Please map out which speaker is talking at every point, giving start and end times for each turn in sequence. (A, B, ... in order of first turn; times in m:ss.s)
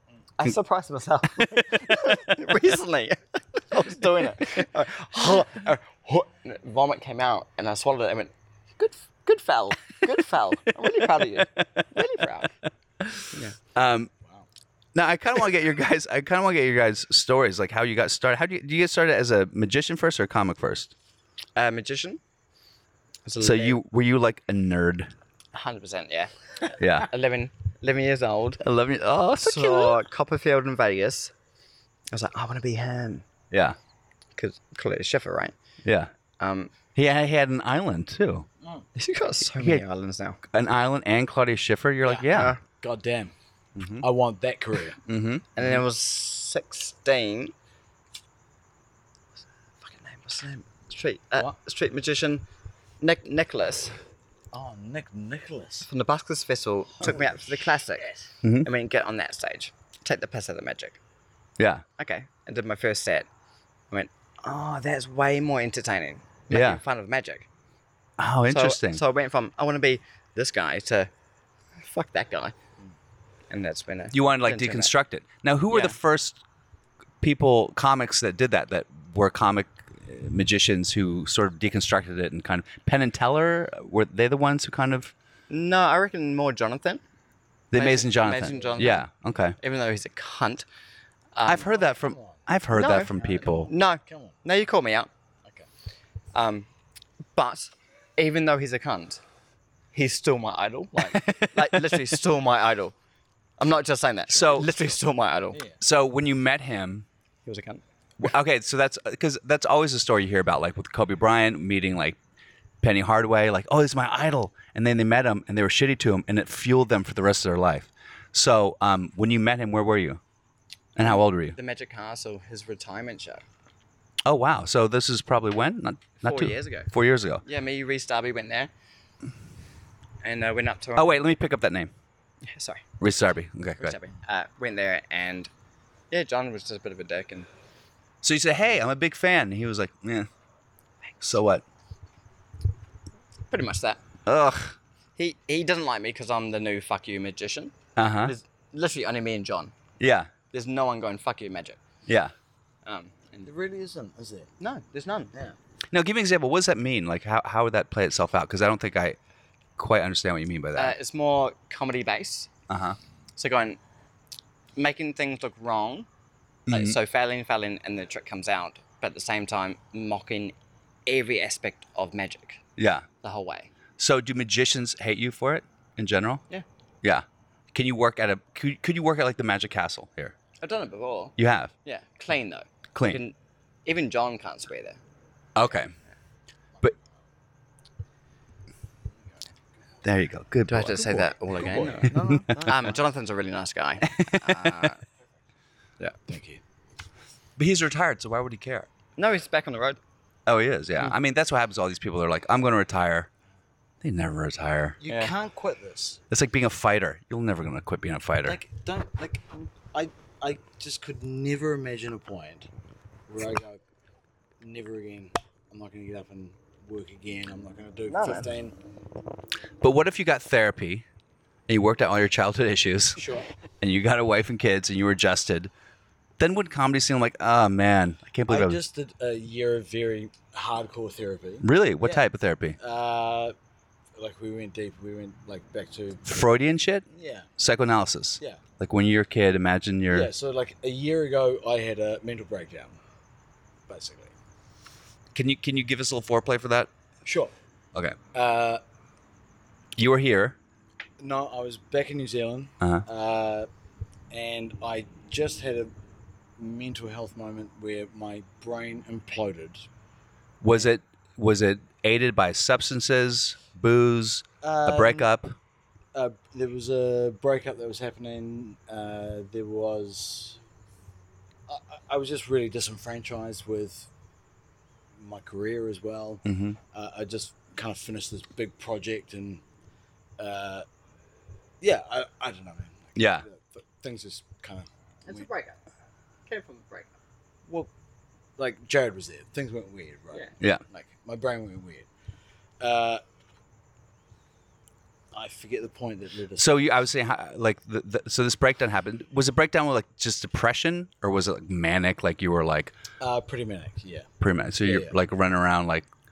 0:00.4-0:12.5 A
0:01.4-0:01.6 B
0:13.8-0:14.1 B
0:15.0-0:20.9 B
0:21.6-0:22.2 A
0:23.2-0:23.8 A
0:23.4-0:25.1 B
0:25.5-0:28.6 A
0:26.8-0:27.1 B
0:28.6-0:30.0 B
0:29.4-0:31.3 A
0:32.1-0:33.2 A
0:33.5-0:33.8 B
0:34.4-0:35.5 A
0:35.8-0:36.1 B
0:36.4-0:36.7 A
0:37.0-0:38.5 B
0:39.0-0:40.4 A
0:39.5-0:39.8 B
0:40.5-0:42.6 B
0:42.0-0:43.3 C
0:42.3-0:42.6 A
0:43.8-0:44.1 B
0:44.0-0:45.0 C
0:45.0-0:45.7 B
0:45.6-0:47.5 A
0:49.8-0:52.4 A
0:53.0-0:54.0 A
0:54.5-0:55.9 C
0:55.8-0:58.1 A
0:58.4-0:58.7 B
0:58.6-1:01.0 A
1:01.6-1:01.8 B
1:02.0-1:03.3 A
1:03.9-1:07.5 A
1:06.5-1:06.8 B
1:08.2-1:09.0 B
1:08.5-1:11.1 A
1:11.8-1:12.6 A
1:13.5-1:14.9 A
1:14.1-1:16.4 B
1:15.7-1:16.0 A
1:17.2-1:25.1 B
1:25.5-1:27.0 A
1:27.7-1:29.6 B
1:27.7-1:29.0 A
1:28.3-1:28.9 C
1:29.6-1:30.7 A
1:31.4-1:31.7 A
1:31.4-1:33.7 B
1:31.8-1:32.4 C
1:32.7-1:35.1 A
1:32.9-1:34.4 C
1:36.3-1:36.7 A
1:37.4-1:39.2 A
1:39.9-1:43.0 A
1:41.1-1:42.0 B
1:43.6-1:45.6 A
1:44.3-1:44.7 B
1:45.5-1:45.8 C
1:45.8-1:47.1 B
1:47.5-1:47.8 A
1:48.2-1:52.2 B
1:52.8-2:00.2 B
2:01.0-2:01.6 B
2:01.0-2:03.4 A
2:04.2-2:07.4 B
2:06.2-2:06.9 A
2:07.4-2:08.7 A
2:10.2-2:11.2 A
2:11.0-2:11.9 B
2:12.4-2:12.8 A
2:13.0-2:14.0 B
2:13.8-2:15.5 A
2:16.1-2:17.5 A
2:18.2-2:20.3 B
2:21.2-2:21.6 B
2:23.5-2:24.0 A
2:24.3-2:24.8 B
2:25.2-2:27.7 A
2:28.0-2:28.3 B
2:28.2-2:29.7 A
2:30.0-2:30.3 B
2:30.5-2:31.8 A
2:32.1-2:32.3 B
2:32.8-2:33.5 A
2:33.4-2:34.5 C
2:34.6-2:35.3 A
2:35.9-2:39.2 B
2:39.8-2:41.0 B
2:40.8-2:42.5 A
2:42.7-2:43.0 B
2:43.4-2:43.8 A
2:44.8-2:46.1 A
2:46.7-2:47.0 B
2:46.7-2:50.5 A
2:51.1-2:52.6 A
2:52.8-2:53.1 B
2:53.2-2:53.7 A
2:54.0-2:56.4 B
2:57.0-3:00.3 B
3:00.6-3:03.4 A
3:01.4-3:01.7 B
3:03.0-3:03.2 B
3:03.9-3:05.0 A
3:05.6-3:05.9 B
3:10.0-3:11.3 B
3:10.7-3:15.0 A
3:11.2-3:13.0 C
3:14.1-3:14.9 B
3:16.3-3:16.6 C
3:17.6-3:18.9 B
3:19.2-3:20.0 A
3:20.5-3:23.3 B
3:24.0-3:25.0 B
3:25.0-3:26.2 C
3:26.3-3:28.6 B
3:28.4-3:32.7 C
3:33.3-3:33.8 C
3:34.6-3:38.7 C
3:38.1-3:38.5 A
3:39.8-3:41.0 B
3:41.7-3:43.2 B
3:43.2-3:43.5 C
3:43.8-3:45.7 B
3:46.4-3:48.8 B
3:48.5-3:52.2 C
3:51.6-3:52.8 B
3:52.8-3:53.5 C
3:54.2-3:56.3 C
3:56.2-3:57.0 B
3:57.1-3:57.5 C
3:57.6-4:00.3 B
4:00.1-4:03.0 C
4:03.9-4:04.3 C
4:05.3-4:06.9 B
4:07.2-4:07.5 C
4:08.3-4:08.8 C
4:10.0-4:10.6 B
4:11.2-4:13.7 C
4:14.3-4:15.9 C
4:16.6-4:19.9 C
4:20.6-4:25.6 B
4:24.6-4:25.3 C
4:26.1-4:30.6 C
4:31.7-4:34.1 C
4:35.2-4:39.6 C
4:36.4-4:36.8 B
4:40.4-4:40.9 C
4:41.8-4:45.5 C
4:43.1-4:43.4 B
4:45.3-4:45.8 A
4:46.5-4:47.1 A
4:48.6-4:52.1 C
4:52.8-4:53.2 C
4:55.3-4:57.0 C
4:56.6-5:02.9 B
5:03.2-5:04.3 C
5:04.4-5:06.1 B
5:04.8-5:05.1 C